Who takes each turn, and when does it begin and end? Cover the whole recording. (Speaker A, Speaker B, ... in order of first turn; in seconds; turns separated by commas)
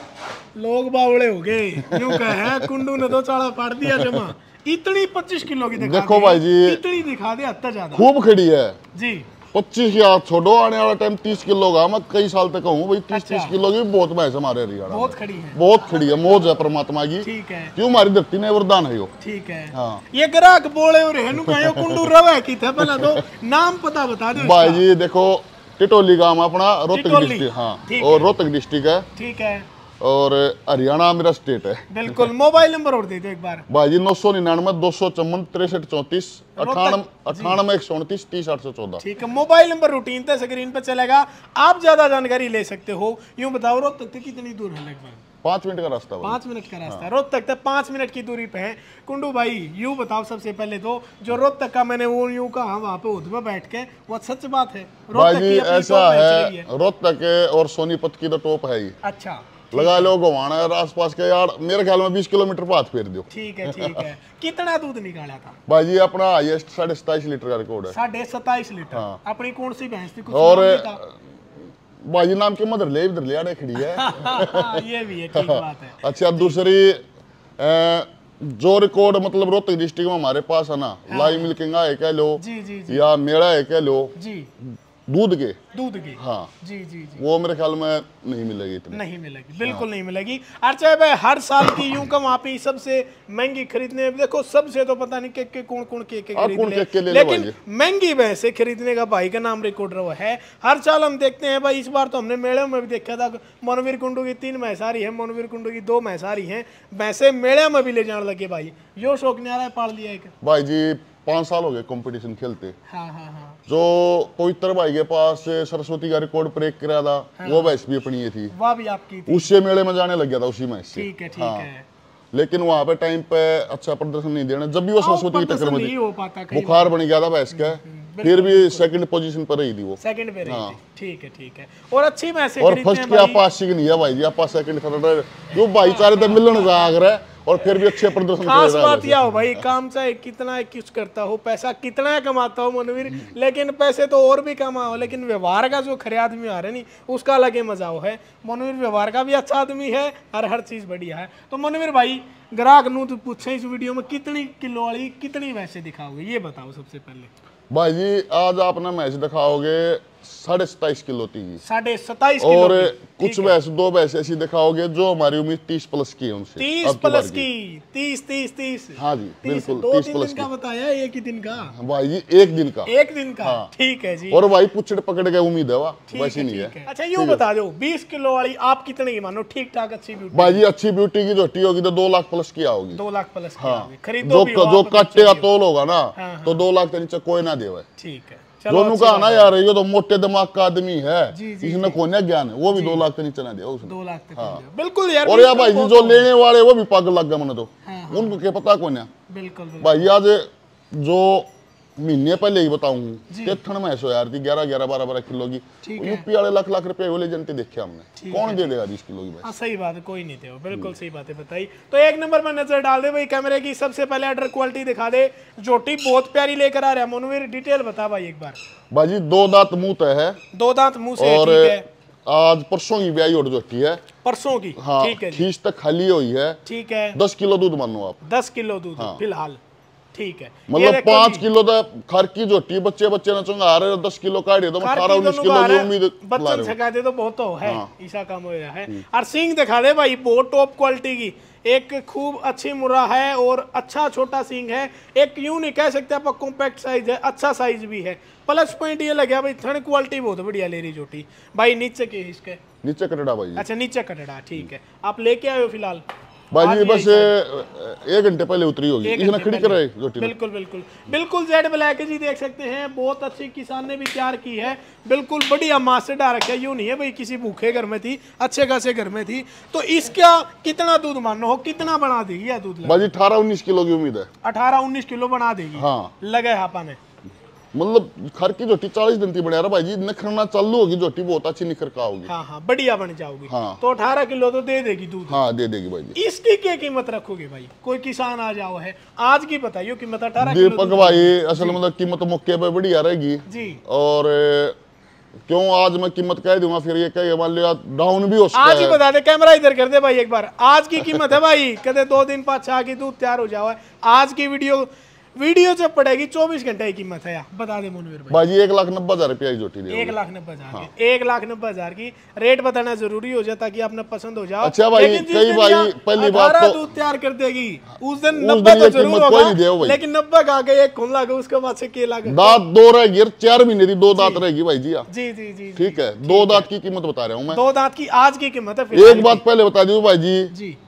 Speaker A: 0.6-8.1, Speaker B: 1.8-2.7, Speaker B: 3.9-4.3, Speaker B: 5.7-6.8, Speaker B: 7.9-8.8, Speaker A: 8.9-9.3, Speaker B: 9.5-19.1, Speaker A: 13.1-13.5, Speaker A: 14.9-15.6, Speaker A: 17.2-17.8, Speaker A: 19.2-24.8, Speaker B: 19.7-20.0, Speaker B: 21.4-22.1, Speaker B: 22.9-23.2, Speaker B: 24.3-29.1, Speaker A: 26.9-28.3, Speaker A: 29.2-29.7, Speaker B: 30.0-32.2, Speaker A: 31.9-33.6, Speaker B: 33.7-39.0, Speaker A: 36.6-37.6, Speaker A: 39.0-45.2, Speaker B: 45.4-47.0, Speaker A: 46.2-56.7, Speaker B: 55.1-59.0, Speaker A: 59.0-60.1, Speaker B: 59.7-64.1, Speaker A: 63.3-65.6, Speaker B: 65.7-67.9, Speaker A: 67.9-71.0, Speaker B: 68.9-69.2, Speaker B: 70.3-71.2, Speaker B: 72.0-77.0, Speaker A: 73.8-76.5, Speaker B: 77.6-85.6, Speaker A: 81.1-81.5, Speaker A: 82.4-83.0, Speaker A: 84.2-84.5, Speaker A: 85.7-87.2, Speaker B: 86.2-86.5, Speaker B: 87.2-89.0, Speaker A: 88.9-110.3, Speaker B: 96.3-97.6, Speaker B: 110.4-112.8, Speaker A: 112.9-113.6, Speaker B: 113.7-118.5, Speaker A: 117.4-117.8, Speaker A: 118.5-119.5, Speaker B: 119.3-121.7, Speaker A: 120.9-121.9, Speaker B: 122.3-125.9, Speaker A: 125.0-126.9, Speaker B: 126.5-130.8, Speaker A: 127.5-128.9, Speaker A: 130.0-133.4, Speaker B: 132.6-139.6, Speaker A: 135.9-136.7, Speaker A: 137.9-157.3, Speaker B: 157.7-161.6, Speaker A: 161.6-163.6, Speaker B: 162.4-167.4, Speaker A: 166.6-171.8, Speaker B: 169.0-170.5, Speaker B: 171.7-173.7, Speaker A: 172.9-174.4, Speaker B: 174.3-177.4, Speaker A: 176.1-180.6, Speaker B: 180.3-183.0, Speaker A: 182.9-185.5, Speaker B: 183.6-187.9, Speaker A: 186.2-186.6, Speaker A: 188.0-189.5, Speaker B: 188.7-194.6, Speaker A: 191.3-192.0, Speaker A: 192.7-193.1, Speaker A: 193.8-196.3, Speaker B: 195.2-199.1, Speaker A: 197.8-198.4, Speaker A: 199.3-200.1, Speaker B: 199.8-209.5, Speaker A: 203.3-203.6, Speaker A: 205.8-206.2, Speaker A: 208.2-208.7, Speaker A: 209.4-218.6, Speaker B: 218.9-220.4, Speaker A: 220.5-221.9, Speaker B: 221.2-224.0, Speaker A: 224.2-225.5, Speaker B: 224.8-226.6, Speaker A: 226.7-227.2, Speaker B: 227.1-228.2, Speaker A: 228.2-229.6, Speaker A: 230.1-231.4, Speaker B: 230.7-236.8, Speaker A: 234.8-252.6, Speaker B: 237.6-237.9, Speaker B: 252.8-253.6, Speaker A: 253.6-256.0, Speaker B: 256.5-260.3, Speaker A: 256.6-257.3, Speaker A: 259.0-273.1, Speaker B: 272.8-274.3, Speaker A: 274.4-277.0, Speaker B: 275.8-276.1, Speaker B: 277.7-282.3, Speaker A: 282.2-285.4, Speaker B: 283.5-283.8, Speaker B: 285.3-286.2, Speaker A: 286.1-291.8, Speaker B: 290.4-294.8, Speaker A: 293.4-293.8, Speaker B: 295.5-299.0, Speaker A: 298.5-308.4, Speaker B: 308.3-310.1, Speaker A: 309.9-322.6, Speaker B: 314.6-316.8, Speaker B: 318.3-320.0, Speaker B: 322.2-325.1, Speaker A: 324.1-324.4, Speaker A: 325.1-326.7, Speaker B: 325.8-327.6, Speaker A: 327.5-329.4, Speaker B: 328.9-330.5, Speaker A: 330.5-330.8